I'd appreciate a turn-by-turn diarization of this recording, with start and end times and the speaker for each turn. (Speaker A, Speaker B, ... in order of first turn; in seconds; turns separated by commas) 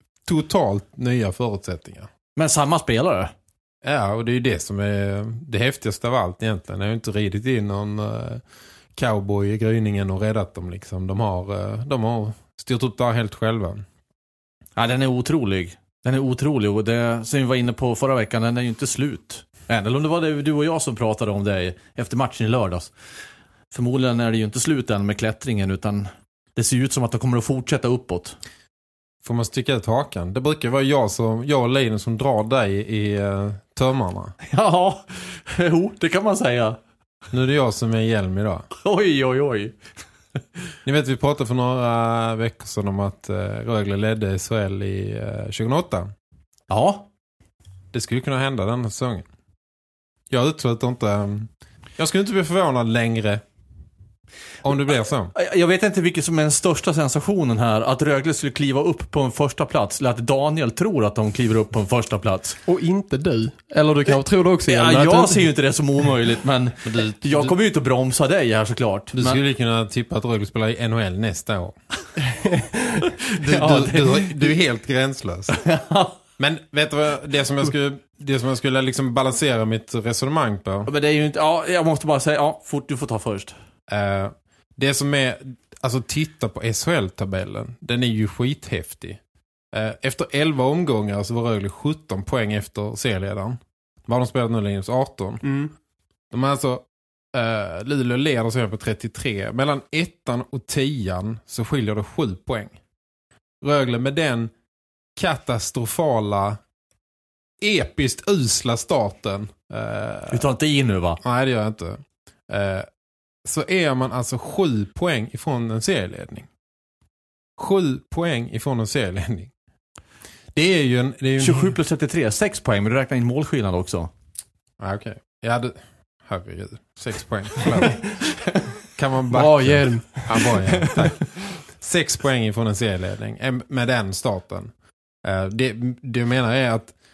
Speaker A: 0.3-2.1, Speaker B: 2.4-3.3, Speaker A: 3.8-8.4, Speaker A: 8.9-13.8, Speaker B: 14.8-22.9, Speaker B: 23.7-28.4, Speaker A: 29.2-34.3, Speaker B: 34.5-36.8, Speaker A: 37.3-38.7, Speaker B: 38.8-39.7, Speaker A: 40.8-46.1, Speaker B: 46.7-47.1, Speaker A: 47.9-49.2, Speaker A: 50.3-53.4, Speaker A: 54.6-55.3, Speaker B: 55.3-62.6, Speaker C: 62.7-65.4, Speaker B: 64.7-69.4, Speaker A: 66.8-67.5, Speaker A: 69.1-71.8, Speaker C: 72.4-72.8, Speaker A: 73.3-75.6, Speaker B: 73.4-74.5, Speaker B: 75.6-76.1, Speaker A: 76.4-80.9, Speaker B: 80.9-83.5, Speaker A: 83.9-89.2, Speaker A: 89.7-95.4, Speaker C: 95.4-95.7, Speaker A: 96.3-102.8, Speaker A: 103.6-104.5, Speaker A: 105.2-106.6, Speaker A: 107.6-110.5, Speaker B: 110.3-111.2, Speaker A: 111.2-112.9, Speaker A: 113.4-116.5, Speaker A: 117.6-119.5, Speaker A: 120.5-121.7, Speaker B: 121.4-124.1, Speaker A: 124.8-128.1, Speaker A: 128.9-134.7, Speaker C: 129.3-130.9, Speaker A: 135.2-136.9